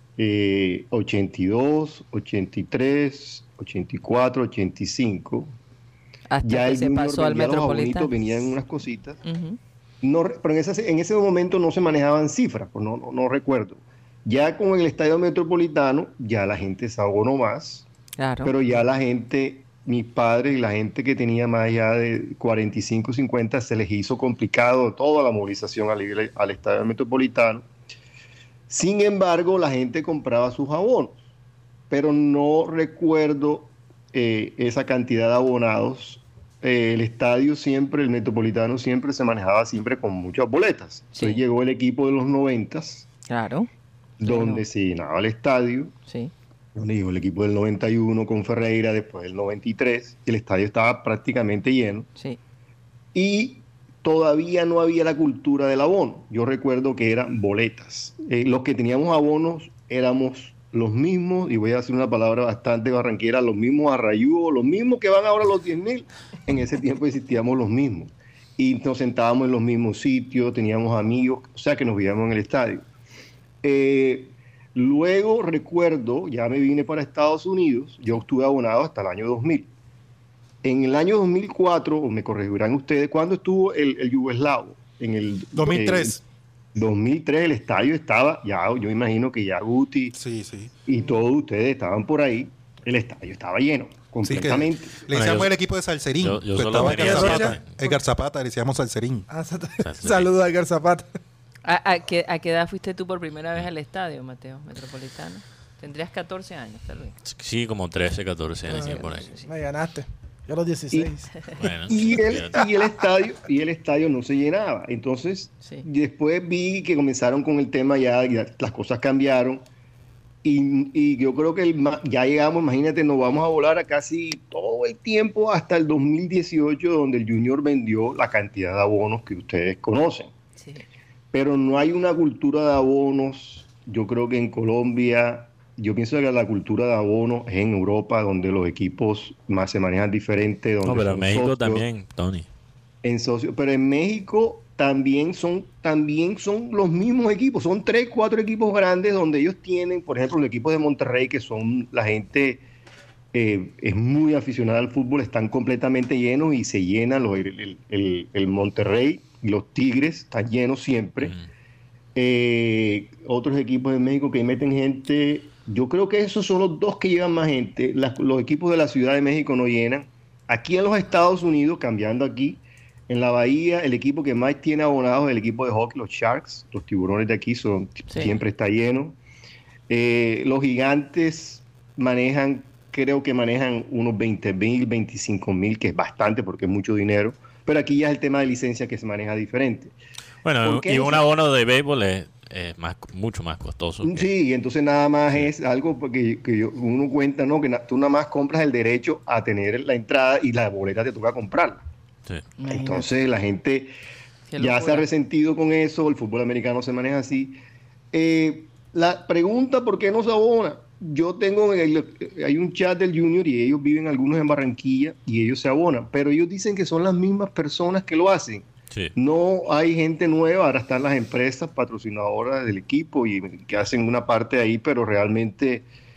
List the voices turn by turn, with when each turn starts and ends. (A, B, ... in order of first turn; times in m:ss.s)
0:00.2-0:05.5 A
0:06.3-0:08.1 B
0:06.4-0:09.2 A
0:09.2-0:09.6 B
0:10.0-0:17.8 A
0:18.2-0:18.5 B
0:18.4-0:27.7 A
0:28.7-0:31.2 A
0:31.9-0:43.0 A
0:41.1-0:41.4 B
0:43.3-0:43.7 B
0:44.2-0:45.9 A
0:44.2-0:44.6 B
0:46.8-0:52.1 A
0:53.1-1:12.8 A
1:13.6-1:19.7 A
1:20.6-1:26.1 A
1:25.5-1:26.2 C
1:26.7-1:30.1 A
1:30.1-1:30.7 C
1:30.9-1:35.0 A
1:34.2-1:39.3 C
1:35.1-1:35.5 D
1:36.2-1:37.6 D
1:36.8-1:38.0 E
1:39.3-1:41.1 E
1:39.8-1:40.3 D
1:41.6-1:47.1 B
1:47.2-1:49.3 D
1:48.7-1:51.5 E
1:48.7-1:49.4 B
1:51.6-1:52.6 D
1:51.9-1:59.6 A
2:00.4-2:10.3 A
2:10.6-2:10.8 B
2:11.3-2:21.8 A
2:20.8-2:22.4 D
2:23.0-2:32.6 A
2:33.3-2:41.3 A
2:41.2-2:41.4 D
2:42.1-2:59.2 A
2:59.9-3:09.9 A
3:10.4-3:14.3 D
3:10.6-3:11.2 A
3:14.0-3:21.8 A
3:22.6-3:23.0 B
3:22.7-3:23.9 A
3:24.5-3:25.0 B
3:24.6-3:27.6 A
3:28.1-3:45.8 A